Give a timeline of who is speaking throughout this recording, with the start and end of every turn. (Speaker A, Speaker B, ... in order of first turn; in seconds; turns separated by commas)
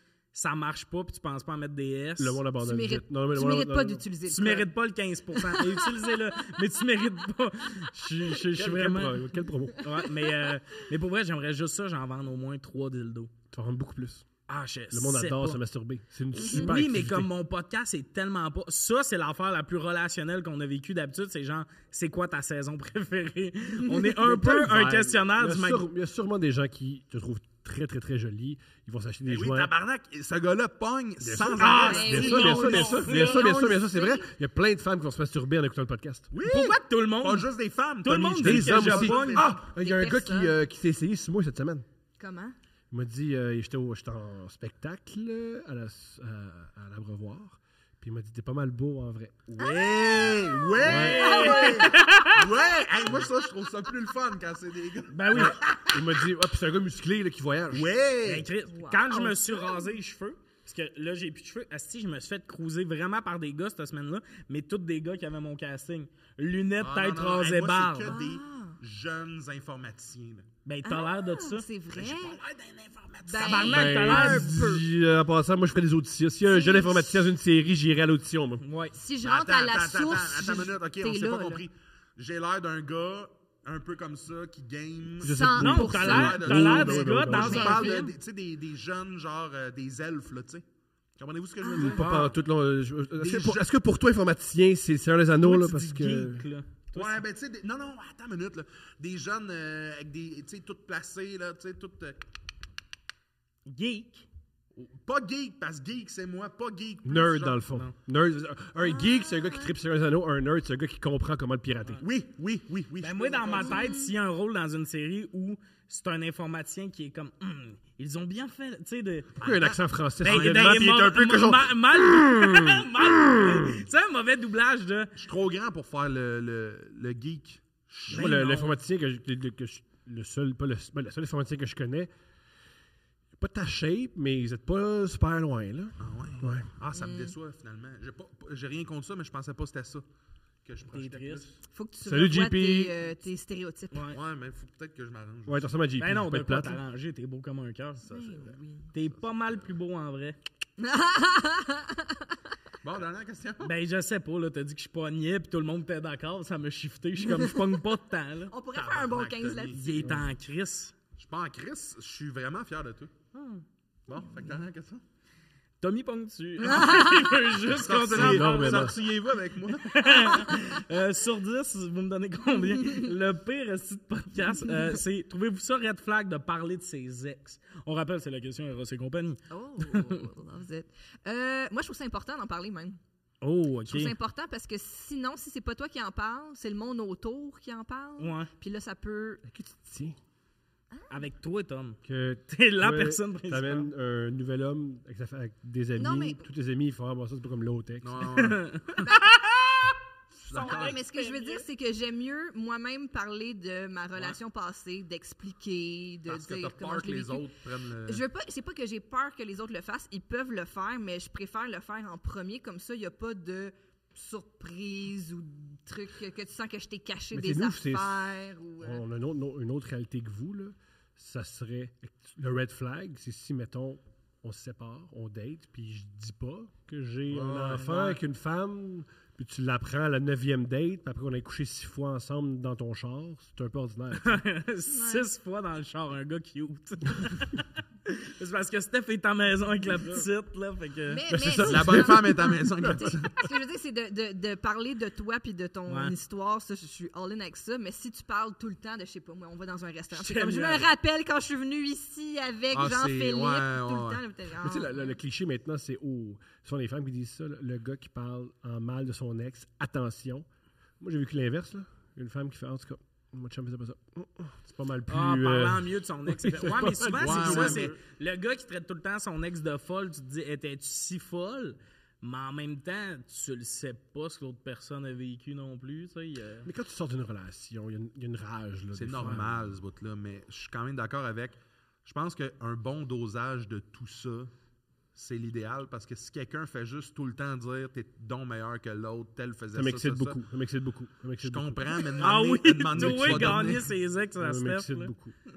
Speaker A: 0.3-2.4, Speaker B: 2.2-4.0, Speaker C: 2.6-4.7, Speaker A: 4.3-9.2, Speaker C: 5.3-6.2, Speaker B: 8.5-9.9, Speaker A: 9.8-13.3, Speaker B: 13.5-14.3, Speaker A: 14.5-15.6, Speaker B: 14.9-17.3, Speaker A: 16.3-25.9, Speaker C: 16.4-16.7, Speaker B: 24.1-29.7, Speaker D: 29.2-33.0, Speaker B: 31.2-36.3, Speaker A: 31.6-33.5, Speaker C: 31.8-34.3, Speaker D: 36.3-39.6, Speaker A: 36.4-37.5, Speaker A: 38.0-39.4, Speaker B: 38.4-41.9, Speaker C: 39.5-40.5, Speaker C: 42.2-42.6, Speaker B: 42.9-49.6, Speaker D: 49.6-56.0, Speaker C: 49.6-52.0, Speaker B: 50.8-51.5, Speaker A: 50.9-52.4, Speaker A: 55.1-55.6, Speaker B: 55.3-57.9, Speaker D: 57.7-58.5, Speaker A: 58.2-68.2, Speaker C: 58.7-59.9, Speaker D: 66.8-70.5, Speaker C: 68.1-68.8, Speaker A: 70.7-71.7, Speaker C: 70.8-72.4, Speaker D: 71.9-73.5, Speaker A: 73.0-74.6, Speaker C: 73.2-74.8, Speaker B: 73.5-78.7, Speaker C: 76.5-77.3, Speaker A: 78.6-79.0, Speaker C: 78.9-81.6, Speaker D: 79.2-90.6, Speaker B: 85.2-87.8, Speaker C: 85.2-88.0, Speaker A: 85.6-88.1, Speaker D: 91.2-92.4, Speaker C: 91.6-92.0, Speaker B: 91.8-96.5, Speaker D: 93.2-93.6, Speaker A: 95.4-97.2, Speaker D: 96.9-102.3, Speaker A: 103.7-104.3, Speaker D: 104.8-107.7, Speaker B: 107.0-112.0, Speaker C: 108.8-109.7, Speaker D: 112.0-113.8, Speaker A: 113.0-119.3, Speaker C: 113.6-114.1, Speaker D: 119.4-121.0, Speaker B: 119.4-123.8, Speaker A: 120.2-125.1, Speaker D: 125.2-128.4, Speaker B: 128.1-132.1, Speaker A: 128.1-128.7, Speaker B: 133.4-136.8, Speaker D: 136.0-140.1, Speaker C: 136.9-137.3, Speaker D: 140.7-141.6, Speaker A: 140.9-141.4, Speaker C: 141.7-144.1, Speaker B: 142.0-143.0, Speaker A: 143.9-144.2, Speaker D: 144.1-145.7, Speaker B: 145.5-146.8, Speaker A: 146.0-148.1, Speaker D: 148.0-149.6, Speaker C: 148.1-148.9, Speaker A: 148.9-150.4, Speaker C: 150.8-152.4, Speaker D: 152.8-153.7, Speaker A: 153.6-158.6, Speaker C: 157.2-157.8, Speaker C: 158.5-160.1, Speaker D: 158.7-160.1, Speaker A: 159.7-160.9, Speaker B: 160.0-160.3, Speaker D: 161.2-163.1, Speaker A: 163.3-163.6, Speaker D: 164.1-165.0, Speaker A: 165.8-169.0, Speaker C: 166.6-167.5, Speaker D: 167.7-170.5, Speaker B: 168.1-169.0, Speaker A: 169.8-180.3, Speaker C: 172.7-173.1, Speaker C: 179.5-183.0, Speaker A: 183.4-184.1, Speaker C: 183.9-189.4, Speaker A: 188.2-188.5, Speaker B: 189.4-190.2, Speaker A: 191.1-193.9, Speaker B: 192.1-198.4, Speaker C: 196.0-196.5, Speaker D: 198.0-199.1, Speaker A: 198.2-200.0, Speaker D: 200.4-201.0, Speaker A: 200.5-201.6, Speaker C: 200.5-207.5, Speaker D: 206.3-208.2, Speaker C: 208.1-219.0, Speaker B: 217.3-218.3, Speaker B: 218.8-234.4, Speaker D: 227.3-227.9, Speaker A: 227.7-228.2, Speaker A: 234.2-241.2, Speaker C: 234.9-235.3, Speaker C: 241.1-255.2, Speaker B: 241.3-243.1, Speaker D: 241.6-243.5, Speaker A: 245.9-246.1, Speaker A: 250.1-250.9, Speaker D: 252.7-254.2, Speaker B: 254.6-260.5, Speaker B: 261.0-267.9, Speaker A: 265.1-276.7, Speaker D: 267.2-268.0, Speaker B: 276.6-279.8, Speaker D: 278.9-284.5, Speaker D: 285.1-290.4, Speaker B: 289.7-292.1, Speaker D: 291.4-293.9, Speaker A: 292.2-295.1, Speaker B: 292.9-295.4